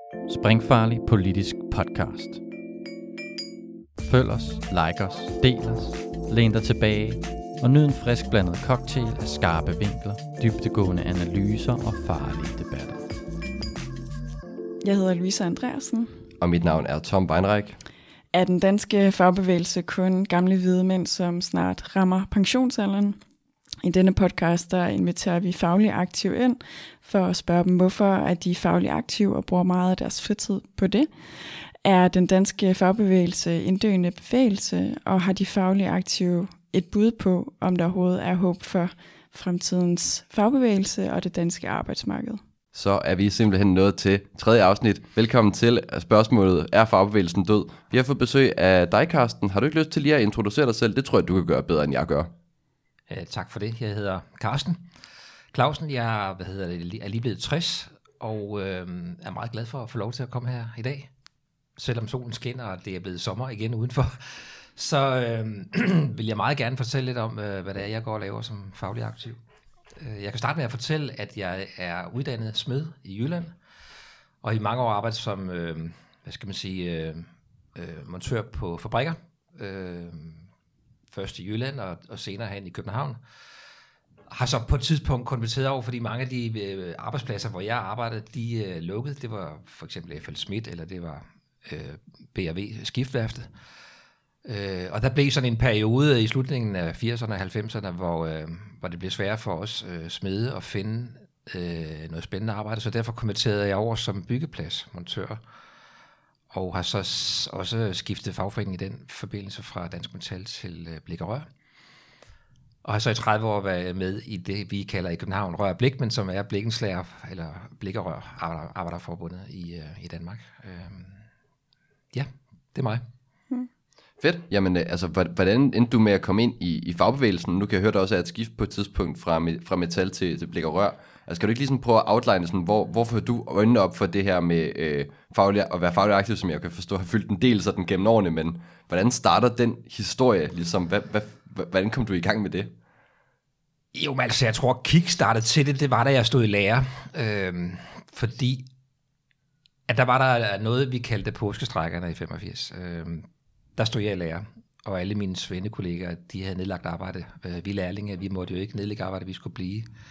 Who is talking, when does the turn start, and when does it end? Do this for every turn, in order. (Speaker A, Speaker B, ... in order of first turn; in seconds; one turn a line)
Speaker A: 0.2-2.4
Speaker A: 4.0-13.1
Speaker B: 14.8-16.1
Speaker C: 16.4-17.8
Speaker B: 18.3-23.2
Speaker B: 23.8-42.4
Speaker C: 42.7-52.3
Speaker D: 53.1-54.8
Speaker D: 55.5-61.1
Speaker D: 61.8-69.4
Speaker D: 70.0-73.5
Speaker D: 74.4-80.5
Speaker D: 81.1-83.2
Speaker D: 84.3-93.5
Speaker D: 94.4-105.4
Speaker D: 106.5-111.5
Speaker D: 112.8-121.2
Speaker D: 122.1-123.0
Speaker C: 124.2-142.7
Speaker D: 143.9-148.7
Speaker D: 149.9-159.9